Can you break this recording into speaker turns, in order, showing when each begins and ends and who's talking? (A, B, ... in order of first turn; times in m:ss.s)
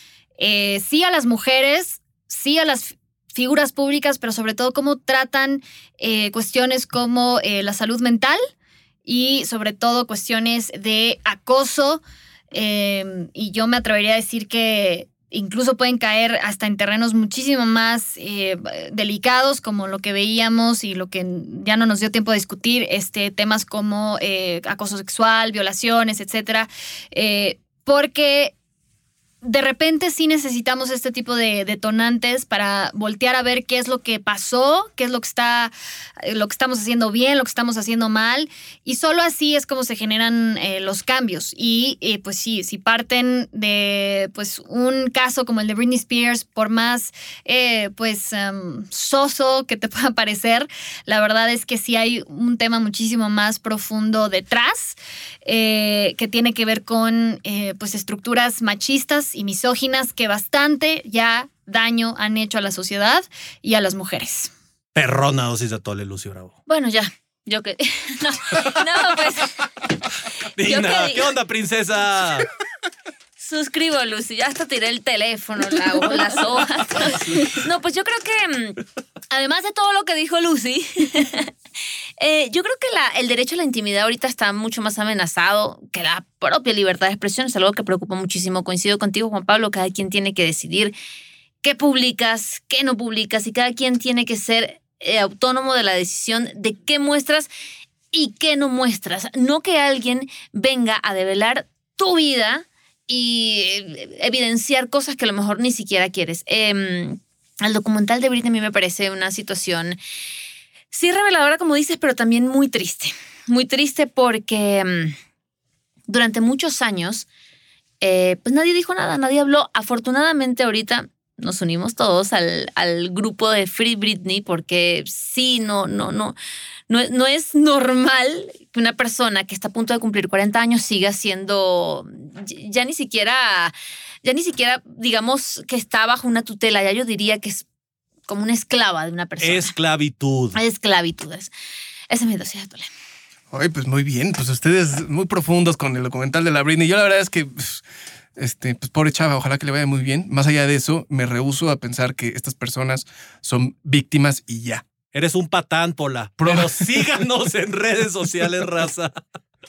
0:00.4-0:08.4 A
0:09.0-0:28.5 A
0:29.4-1:04.5 A
1:04.9-1:06.6 B
1:06.7-1:09.6 C
1:10.6-1:12.5 B
1:10.6-1:11.3 C
1:13.4-1:21.5 C
1:22.2-1:30.9 C
1:31.6-1:37.5 C
1:38.1-1:50.0 C
1:50.9-1:55.2 C
1:56.1-1:57.2 C
1:58.0-2:06.4 C
2:06.9-2:17.6 C
2:18.3-2:19.7 C
2:19.4-2:20.6 B
2:20.5-2:21.5 C
2:22.1-2:22.9 C
2:23.5-2:27.8 D
2:28.4-2:34.8 D
2:35.1-2:39.2 B
2:36.4-2:37.2 D